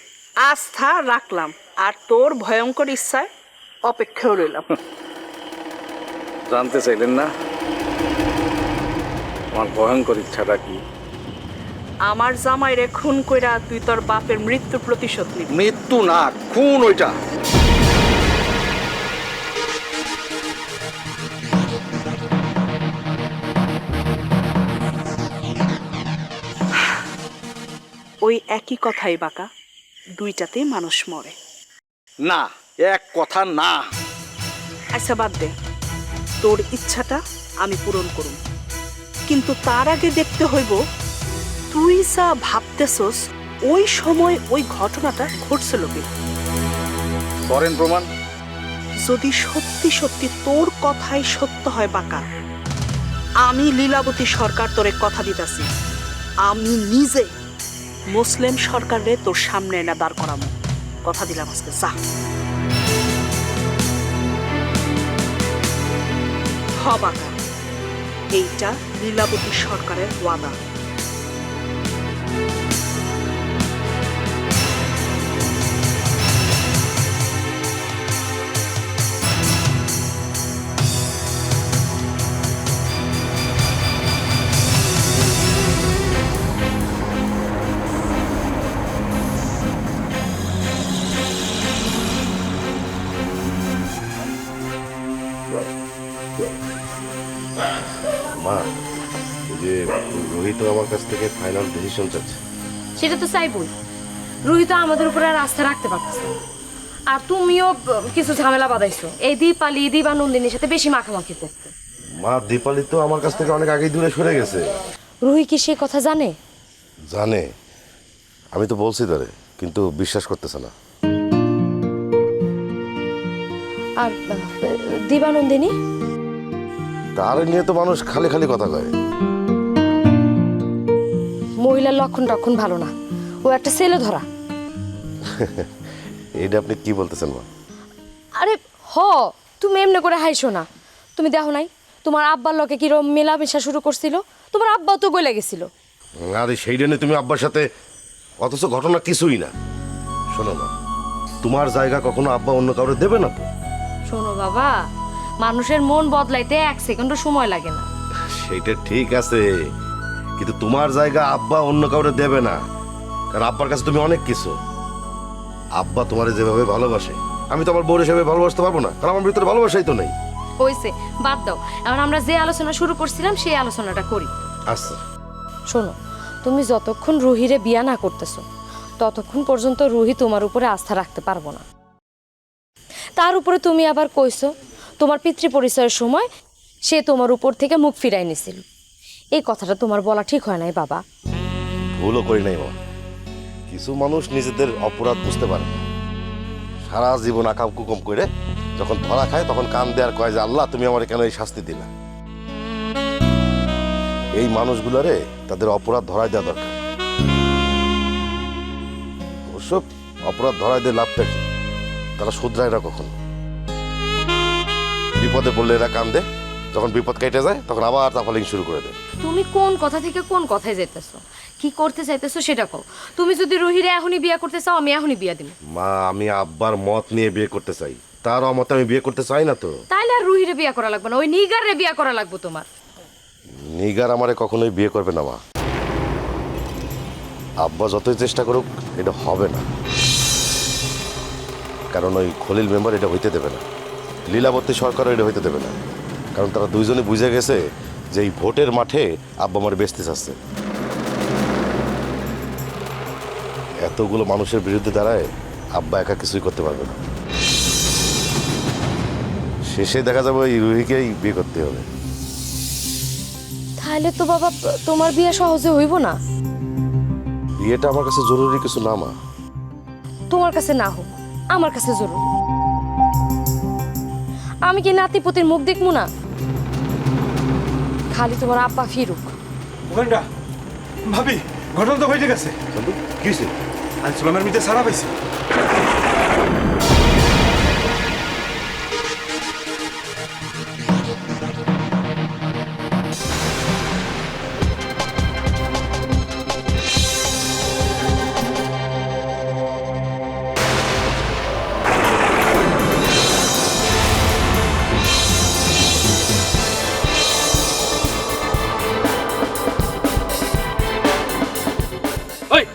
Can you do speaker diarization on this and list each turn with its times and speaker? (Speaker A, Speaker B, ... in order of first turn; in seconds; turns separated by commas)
Speaker A: 0.4-3.3, Speaker A: 3.9-4.7, Speaker B: 6.5-7.3, Speaker B: 9.5-10.8, Speaker A: 12.1-15.5, Speaker B: 15.6-17.1, Speaker A: 28.2-29.5, Speaker A: 30.2-31.4, Speaker B: 32.3-33.8, Speaker A: 34.9-35.5, Speaker A: 36.4-38.4, Speaker A: 39.3-40.8, Speaker A: 41.7-46.1, Speaker B: 47.5-48.1, Speaker A: 49.0-52.3, Speaker A: 53.4-55.7, Speaker A: 56.5-57.3, Speaker A: 58.1-62.0, Speaker A: 66.8-67.3, Speaker A: 68.3-70.6, Speaker C: 98.4-98.7, Speaker C: 99.5-102.4, Speaker D: 103.0-103.7, Speaker D: 104.5-106.3, Speaker D: 107.1-111.7, Speaker C: 112.2-114.7, Speaker D: 115.2-116.3, Speaker C: 117.1-117.5, Speaker C: 118.5-120.7, Speaker D: 124.0-125.8, Speaker C: 127.2-128.9, Speaker D: 131.6-132.9, Speaker D: 133.4-134.3, Speaker C: 135.4-135.7, Speaker C: 136.4-137.5, Speaker D: 138.4-145.7, Speaker C: 146.3-147.7, Speaker C: 148.4-149.5, Speaker C: 150.3-150.7, Speaker C: 151.4-153.5, Speaker D: 154.1-154.8, Speaker D: 155.4-157.9, Speaker C: 158.4-159.5, Speaker C: 160.4-162.6, Speaker C: 163.3-164.6, Speaker C: 165.8-170.1, Speaker D: 170.6-174.3, Speaker C: 174.7-175.0, Speaker D: 175.7-178.4, Speaker D: 179.0-181.6, Speaker D: 183.2-186.3, Speaker D: 186.9-188.6, Speaker D: 189.3-191.0, Speaker C: 191.9-192.8, Speaker C: 193.7-195.7, Speaker C: 196.8-201.9, Speaker C: 204.4-206.8, Speaker C: 209.5-211.4, Speaker C: 212.2-213.1, Speaker C: 215.2-219.0, Speaker D: 219.2-225.6, Speaker C: 225.7-229.7, Speaker D: 229.9-232.7, Speaker C: 233.8-235.4, Speaker C: 237.6-239.7, Speaker C: 241.9-243.6, Speaker C: 244.3-245.8, Speaker C: 246.4-250.4, Speaker C: 253.8-257.0, Speaker C: 259.7-261.9, Speaker D: 263.8-266.2, Speaker C: 267.6-269.1, Speaker D: 270.3-272.3, Speaker D: 274.6-276.1, Speaker D: 278.1-279.3, Speaker E: 279.9-280.3, Speaker E: 281.1-282.6, Speaker C: 282.8-283.5, Speaker E: 284.0-285.1